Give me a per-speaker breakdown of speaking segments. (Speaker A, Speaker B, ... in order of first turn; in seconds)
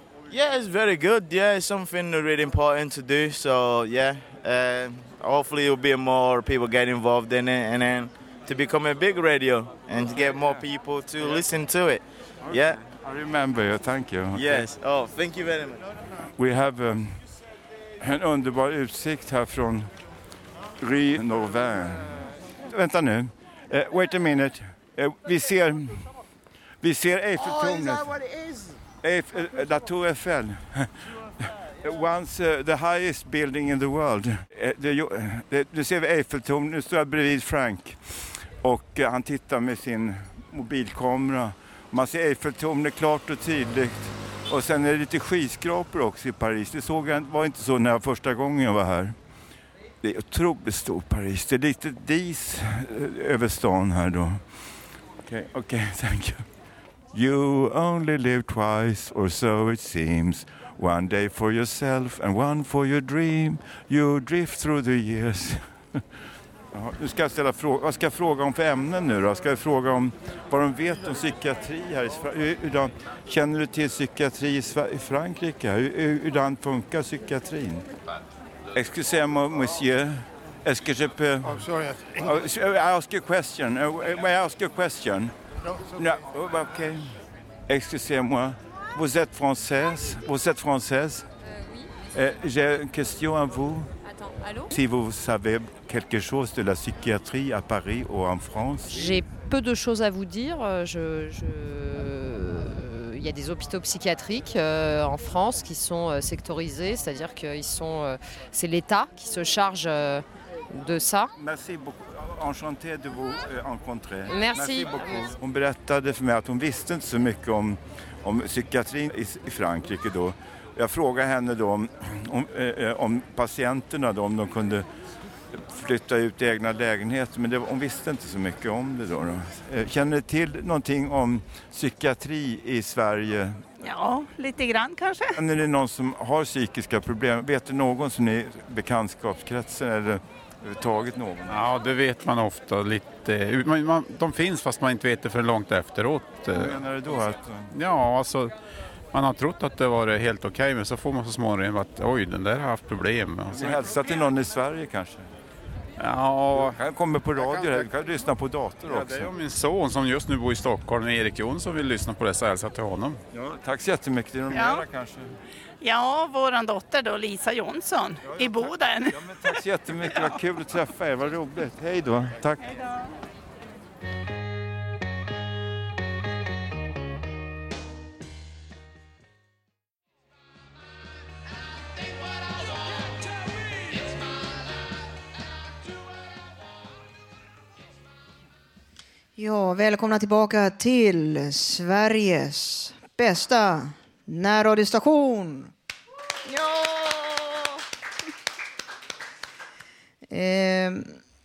Speaker A: 0.3-12.8, 14.3-15.9
Speaker B: 12.8-14.7, 16.4-17.3, 18.0-19.9, 20.8-26.1, 26.8-28.2, 29.0-49.2, 50.0-54.5, 55.2-56.5, 57.1-66.0, 66.7-77.9, 78.7-85.3, 86.0-87.2, 87.7-91.3, 92.1-94.0, 94.7-99.2, 111.4-124.9, 125.5-133.7, 135.3-141.6, 146.5-147.7, 153.5-155.3, 156.5-159.3, 163.3-165.3, 168.3-172.8
Speaker C: 98.9-111.3, 114.3-115.2
Speaker D: 133.8-135.4, 164.5-164.8, 165.8-169.5, 170.0-170.4
Speaker E: 141.5-146.8, 147.7-148.6, 149.1-153.8, 156.0-156.8, 158.8-163.2
Speaker F: 189.4-195.7, 200.3-201.2